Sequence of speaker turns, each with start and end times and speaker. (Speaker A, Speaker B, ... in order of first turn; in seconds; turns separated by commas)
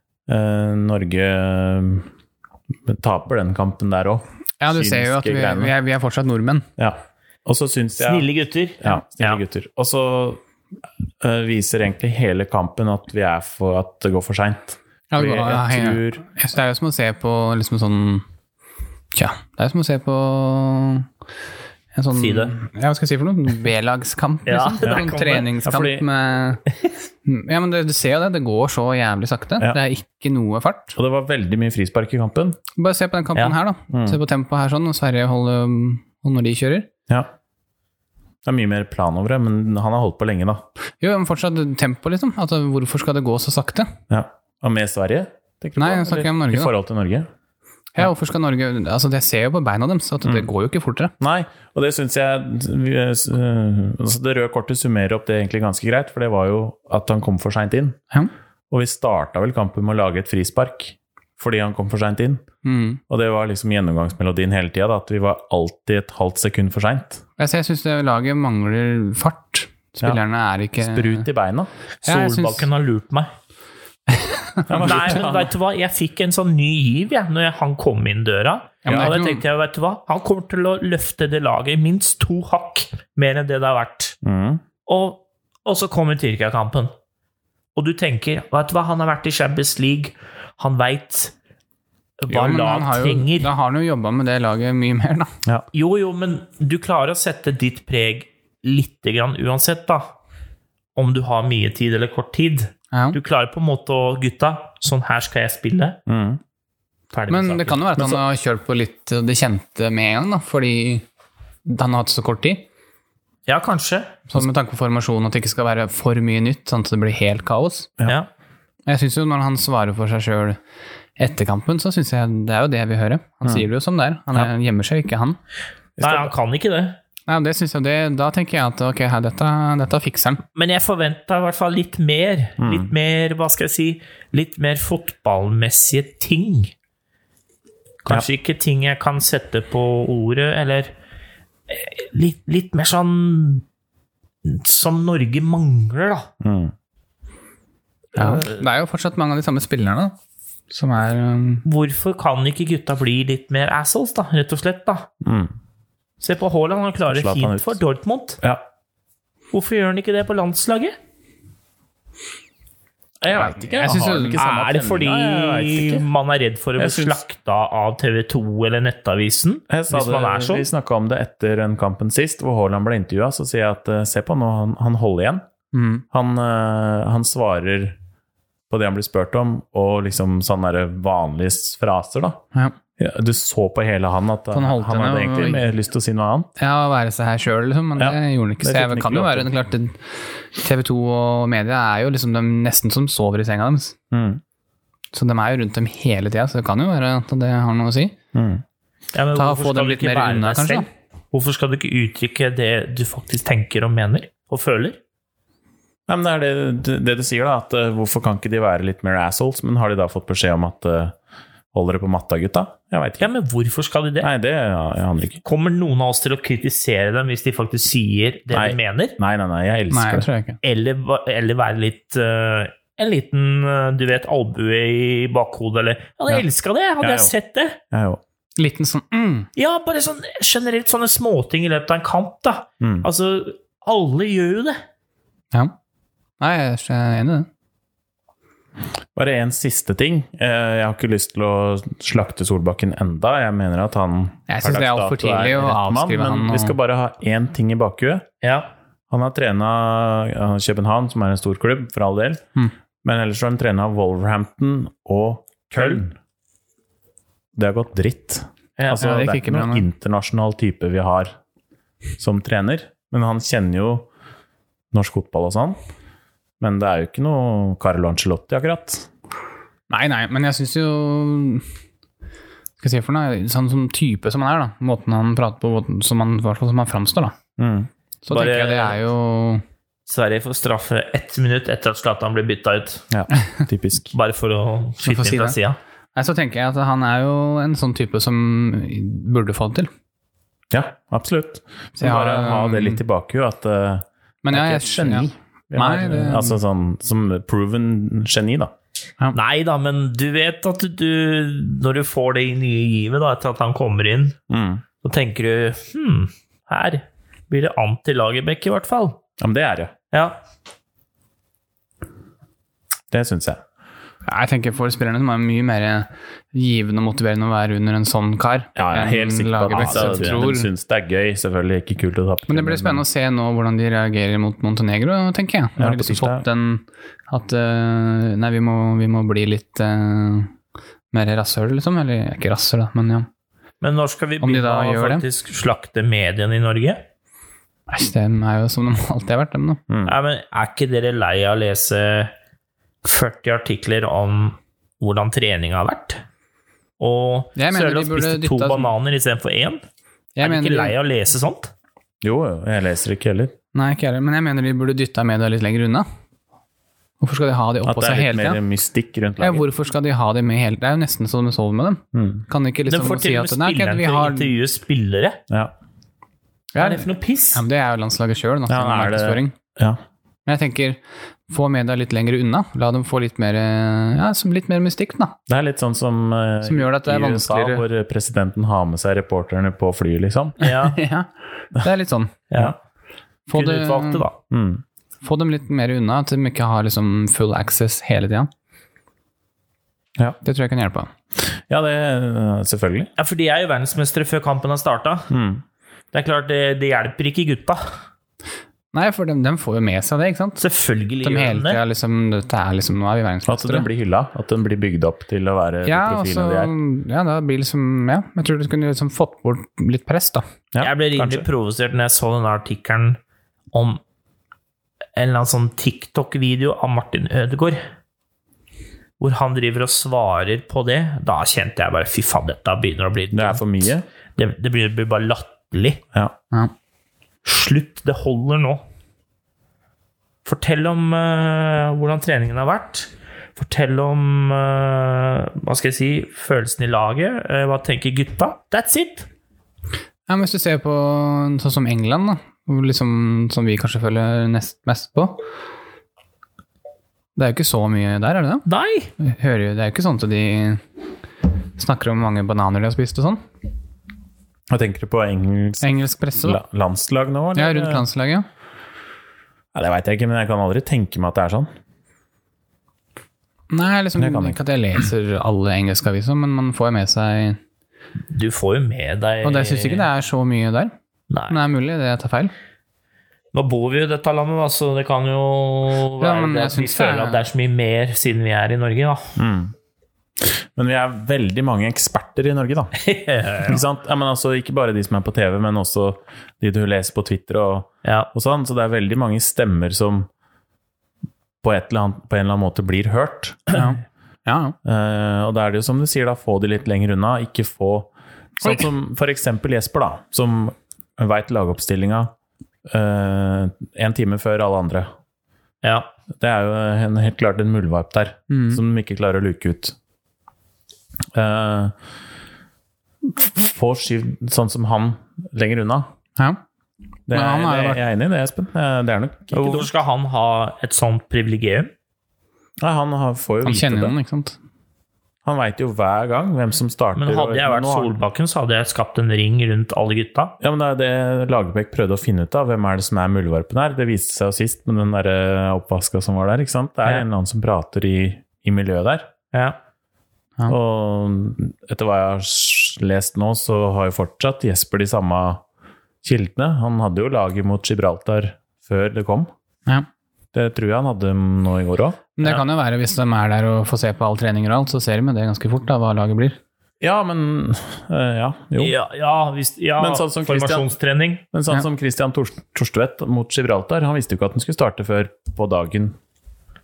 Speaker A: 0.3-2.1, Speaker A: 2.9-5.8, Speaker B: 4.6-6.7, Speaker A: 6.8-8.3, Speaker C: 8.0-9.4, Speaker A: 8.8-10.4, Speaker A: 11.2-16.2, Speaker B: 15.1-18.2, Speaker B: 19.1-21.1, Speaker B: 21.9-26.6, Speaker C: 22.1-22.5, Speaker C: 24.5-25.5, Speaker A: 25.5-26.1, Speaker B: 27.2-30.9, Speaker A: 30.9-32.6, Speaker B: 32.8-36.9, Speaker A: 33.9-34.2, Speaker A: 38.5-40.6, Speaker B: 41.0-44.0, Speaker A: 44.1-47.3, Speaker B: 45.8-46.7, Speaker B: 48.0-51.1, Speaker A: 51.2-58.0, Speaker A: 58.7-62.4, Speaker B: 62.6-63.0, Speaker A: 63.1-67.2, Speaker B: 67.4-71.3, Speaker A: 70.8-71.7, Speaker C: 72.0-73.3, Speaker B: 72.0-72.7, Speaker B: 74.1-75.1, Speaker A: 74.7-75.5, Speaker C: 74.8-84.2, Speaker B: 78.8-79.4, Speaker A: 78.9-79.2, Speaker A: 84.2-84.6, Speaker C: 84.9-86.9, Speaker C: 87.8-91.3, Speaker C: 92.2-93.5, Speaker B: 92.3-95.3, Speaker C: 95.7-100.1, Speaker C: 101.0-106.0, Speaker B: 102.9-103.2, Speaker A: 106.1-106.4, Speaker C: 107.1-107.9, Speaker B: 107.3-111.0, Speaker B: 111.7-112.7, Speaker C: 113.5-114.2, Speaker B: 114.3-117.9, Speaker B: 118.9-120.6, Speaker B: 121.2-125.4, Speaker A: 126.0-126.3, Speaker C: 126.0-127.0, Speaker B: 127.3-130.4, Speaker C: 130.6-136.7, Speaker A: 132.6-132.9, Speaker C: 138.0-140.9, Speaker C: 141.7-143.6, Speaker C: 144.4-146.3, Speaker A: 146.4-146.7, Speaker B: 148.2-150.2, Speaker C: 148.2-148.6, Speaker B: 150.7-151.7, Speaker C: 151.7-155.1, Speaker A: 155.2-155.5, Speaker C: 156.2-158.4, Speaker A: 157.1-157.8, Speaker C: 159.5-160.9, Speaker A: 163.2-166.1, Speaker B: 163.4-164.5, Speaker C: 164.0-170.7, Speaker A: 166.8-167.2, Speaker A: 169.7-175.4, Speaker B: 175.7-176.0, Speaker A: 176.1-178.0, Speaker A: 178.7-182.4, Speaker A: 183.0-186.5, Speaker B: 184.5-185.7, Speaker B: 186.6-190.0, Speaker A: 188.0-189.5, Speaker B: 190.6-194.0, Speaker A: 194.1-194.4, Speaker B: 195.1-198.2, Speaker A: 198.3-198.6, Speaker C: 199.1-205.0, Speaker B: 199.3-200.9, Speaker A: 206.1-211.2, Speaker A: 211.7-213.3, Speaker C: 213.2-214.3, Speaker A: 214.2-215.4, Speaker C: 215.4-219.2, Speaker A: 218.5-220.3, Speaker B: 219.9-220.6, Speaker C: 220.6-227.8, Speaker A: 227.0-227.3, Speaker A: 227.9-228.2, Speaker B: 228.6-229.5, Speaker C: 229.6-234.8, Speaker A: 232.8-233.1, Speaker B: 236.4-237.5, Speaker A: 239.1-248.3, Speaker B: 244.5-246.8, Speaker C: 248.4-248.7, Speaker A: 249.1-252.4, Speaker A: 253.0-256.2, Speaker C: 255.8-256.0, Speaker A: 257.6-261.4, Speaker C: 258.8-259.1, Speaker B: 258.9-259.9, Speaker A: 262.2-264.1, Speaker A: 264.9-265.8, Speaker A: 266.6-269.1, Speaker B: 269.9-271.6, Speaker B: 272.8-277.4, Speaker A: 277.6-277.9, Speaker B: 278.2-279.6, Speaker C: 278.3-279.0, Speaker C: 280.1-283.1, Speaker A: 283.1-284.1, Speaker C: 284.1-285.8, Speaker B: 285.0-285.6, Speaker B: 286.1-289.9, Speaker A: 290.7-298.7, Speaker B: 292.0-293.0, Speaker B: 294.4-296.6, Speaker C: 299.3-304.4, Speaker A: 304.5-304.8, Speaker C: 305.0-309.2, Speaker A: 309.4-309.9, Speaker C: 310.1-310.4, Speaker A: 313.1-313.6, Speaker B: 314.3-320.7, Speaker A: 318.8-323.1, Speaker C: 319.8-320.4, Speaker B: 322.5-330.5, Speaker A: 325.8-326.5, Speaker B: 331.1-333.3, Speaker C: 333.8-337.0, Speaker B: 334.4-335.2, Speaker B: 337.9-339.8, Speaker A: 339.9-340.2, Speaker C: 340.1-342.3, Speaker C: 343.0-346.2, Speaker C: 347.0-349.8, Speaker B: 347.6-348.9, Speaker B: 350.4-350.9, Speaker C: 350.4-351.7, Speaker A: 352.2-353.5, Speaker B: 353.7-356.1, Speaker B: 357.2-358.6, Speaker A: 357.8-359.7, Speaker B: 359.4-364.5, Speaker A: 362.1-362.4, Speaker C: 362.9-365.4, Speaker B: 366.8-369.6, Speaker C: 366.8-367.6, Speaker A: 368.7-370.0, Speaker B: 370.5-375.4, Speaker A: 375.5-380.6, Speaker B: 376.6-377.9, Speaker C: 380.6-381.0, Speaker B: 380.6-382.4, Speaker C: 382.5-382.8, Speaker B: 383.5-384.3, Speaker C: 383.5-384.4, Speaker A: 384.5-384.8, Speaker B: 385.2-388.5, Speaker B: 390.4-391.1, Speaker A: 391.4-393.1, Speaker C: 393.2-395.3, Speaker A: 395.3-395.6, Speaker C: 396.1-397.8, Speaker B: 398.9-400.6, Speaker C: 400.6-401.8, Speaker B: 401.2-403.9, Speaker A: 403.5-406.7, Speaker B: 405.9-410.4, Speaker A: 410.7-411.5, Speaker C: 410.8-413.2, Speaker C: 413.7-414.0, Speaker C: 415.2-417.8, Speaker C: 419.2-423.8, Speaker A: 423.3-424.1, Speaker C: 424.4-426.0, Speaker C: 427.4-428.8, Speaker C: 430.4-439.3, Speaker B: 440.3-445.4, Speaker B: 447.4-448.6, Speaker C: 448.7-449.1, Speaker B: 449.2-450.8, Speaker B: 451.8-453.4, Speaker A: 454.7-458.1, Speaker B: 455.8-456.6, Speaker B: 457.6-458.5, Speaker A: 459.7-461.7, Speaker B: 463.7-467.6, Speaker A: 464.2-464.6, Speaker C: 468.3-470.1, Speaker B: 469.4-470.9, Speaker C: 471.3-471.6, Speaker B: 471.5-472.5, Speaker C: 473.5-479.3, Speaker B: 476.2-477.4, Speaker A: 479.4-479.7, Speaker A: 480.4-482.9, Speaker C: 483.0-483.8, Speaker A: 483.6-490.3, Speaker A: 491.6-493.7, Speaker B: 493.7-494.8, Speaker A: 494.9-502.3, Speaker A: 502.9-505.1, Speaker C: 505.8-506.1, Speaker A: 506.4-509.9, Speaker B: 508.5-508.8, Speaker A: 511.3-511.9, Speaker A: 513.2-516.1, Speaker A: 517.3-519.9, Speaker B: 517.3-518.0, Speaker C: 519.5-521.9, Speaker A: 522.8-524.2, Speaker B: 523.6-524.6, Speaker A: 525.5-528.2, Speaker C: 527.2-530.5, Speaker A: 530.6-539.3, Speaker A: 540.7-545.6, Speaker A: 546.2-549.5, Speaker A: 550.5-552.2, Speaker B: 552.4-556.6, Speaker A: 557.0-559.0, Speaker C: 558.8-561.4, Speaker A: 560.0-560.9, Speaker A: 561.5-566.2